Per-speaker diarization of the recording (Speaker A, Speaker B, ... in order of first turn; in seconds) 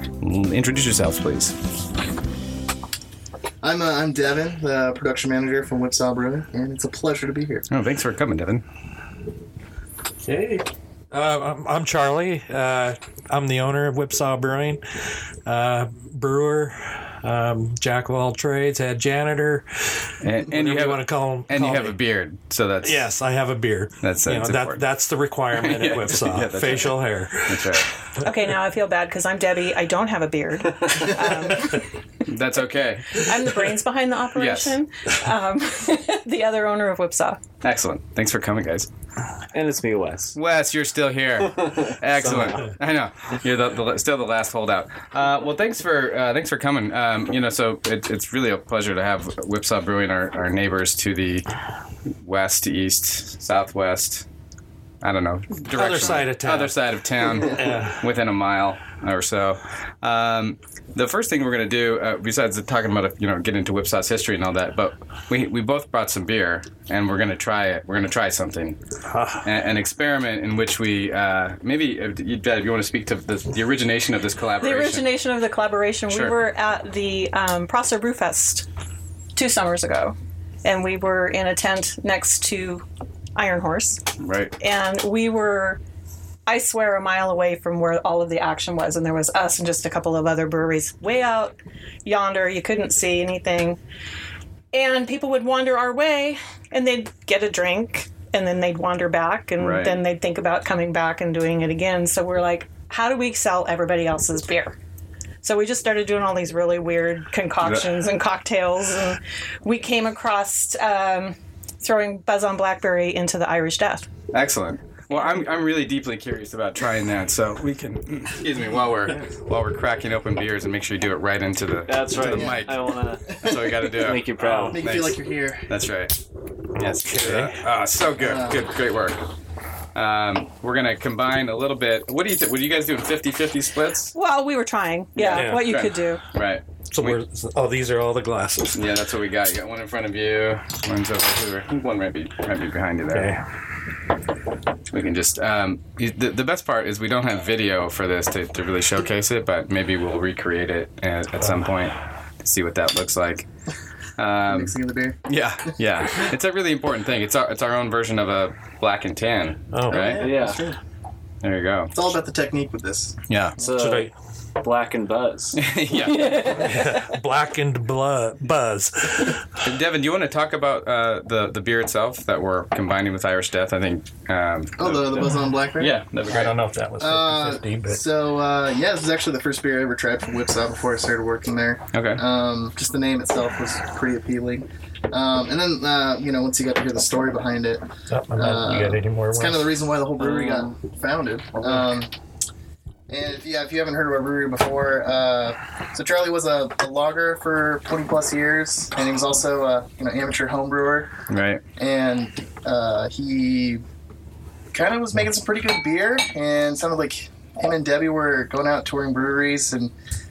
Speaker A: 0.2-1.6, 7.7-8.6, 20.2-23.1, 24.0-24.8, 25.5-27.9, 32.2-33.3, 34.4-34.8, 37.6-38.9, 40.4-51.5, 52.2-54.3, 55.0-68.8, 69.4-75.1, 76.1-76.3, 84.2-84.6, 99.6-100.0, 114.3-126.2, 126.8-129.2, 129.9-134.1, 135.2-137.2, 138.7-143.3, 144.9-153.5, 154.2-160.2, 161.4-161.9, 163.3-163.6, 165.6-166.7, 169.6-176.6, 181.9-182.2, 201.3-201.6
Speaker B: 3.6-7.7, 122.1-124.0, 124.7-125.7, 128.2-128.7, 154.5-155.7, 159.9-160.8, 161.9-163.9, 174.8-176.0, 177.0-192.1, 193.1-201.1, 201.8-203.8, 204.7-209.9
Speaker C: 10.2-22.0, 22.8-28.2, 55.8-58.1, 69.1-69.5, 124.4-124.8, 126.9-127.7, 135.3-135.9, 136.9-138.8, 143.1-143.4, 159.7-160.4, 163.8-164.1, 166.4-169.5, 176.3-178.0, 188.1-190.7
Speaker D: 28.2-31.9, 33.1-37.4, 74.6-78.7, 79.3-84.0, 84.6-85.8, 86.5-93.8, 94.7-104.8, 105.4-114.1, 134.1-136.2, 166.1-166.7
Speaker E: 39.5-40.4, 42.2-42.6, 121.9-123.4, 124.0-124.8, 160.2-160.6, 163.6-164.1, 164.6-165.6